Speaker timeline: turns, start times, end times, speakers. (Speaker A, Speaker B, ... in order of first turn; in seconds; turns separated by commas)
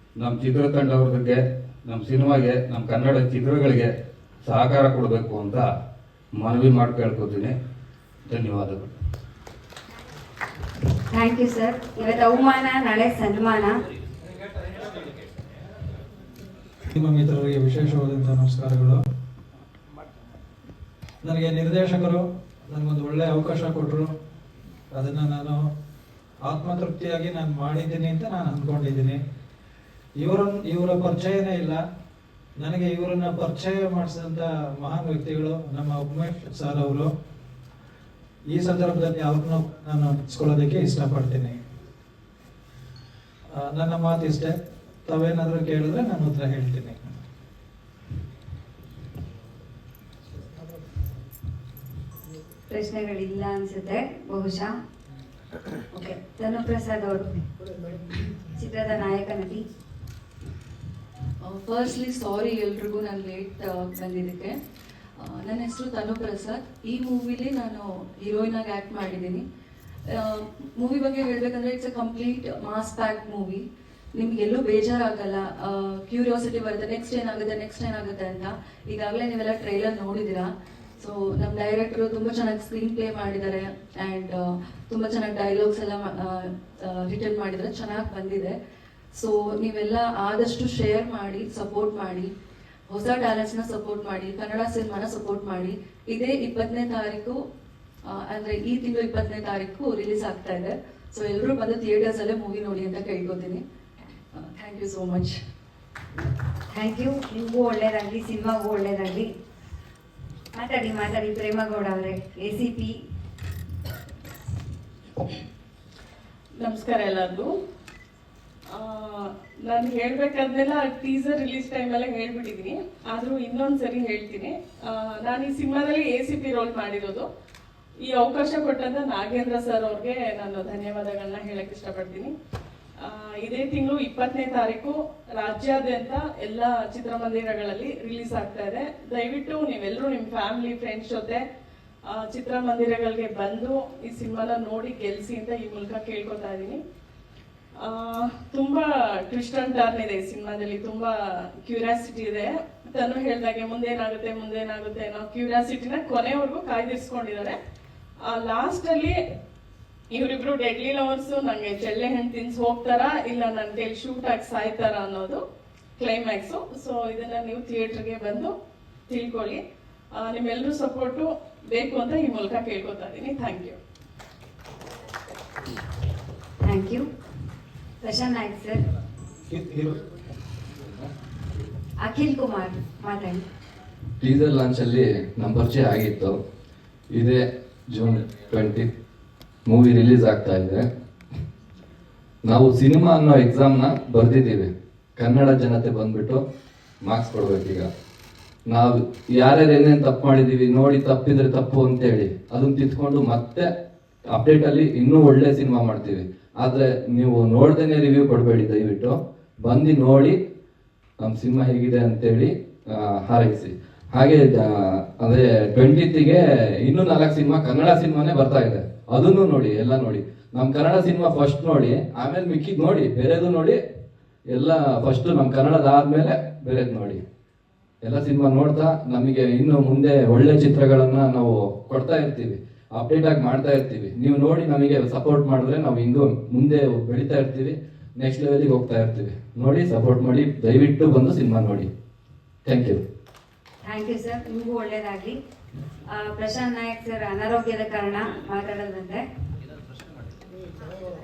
Speaker A: 0.2-3.9, Speaker A: 4.5-5.6, Speaker A: 6.4-7.5, Speaker A: 8.3-8.9, Speaker B: 11.1-13.8, Speaker C: 16.9-19.0, Speaker C: 21.2-24.1, Speaker C: 24.9-25.6, Speaker C: 26.4-29.2, Speaker C: 30.2-31.8, Speaker C: 32.6-37.1, Speaker C: 38.5-41.6, Speaker C: 43.6-47.0, Speaker B: 52.7-54.7, Speaker B: 55.9-57.3, Speaker B: 58.5-59.6, Speaker D: 61.4-64.5, Speaker D: 65.2-69.4, Speaker D: 70.1-88.5, Speaker D: 89.1-92.3, Speaker D: 92.9-97.4, Speaker D: 98.0-103.6, Speaker D: 104.3-105.4, Speaker B: 106.7-109.3, Speaker B: 110.5-113.0, Speaker E: 116.6-117.5, Speaker E: 118.8-127.2, Speaker E: 128.0-132.3, Speaker E: 133.1-141.4, Speaker E: 142.1-146.8, Speaker E: 147.8-151.1, Speaker E: 151.6-157.6, Speaker E: 158.3-159.2, Speaker E: 160.1-165.4, Speaker E: 166.0-168.5, Speaker E: 169.1-169.6, Speaker E: 170.2-173.8, Speaker B: 176.6-177.1, Speaker B: 178.0-178.9, Speaker C: 179.6-179.9, Speaker B: 182.0-183.4, Speaker F: 184.2-186.3, Speaker F: 187.1-188.9, Speaker F: 189.7-190.8, Speaker F: 192.4-196.4, Speaker F: 197.0-197.9, Speaker F: 198.7-203.7, Speaker F: 204.3-210.4, Speaker F: 211.2-223.8, Speaker F: 224.5-227.2, Speaker F: 228.0-241.9, Speaker F: 242.6-243.0, Speaker B: 243.8-245.4, Speaker B: 246.1-249.2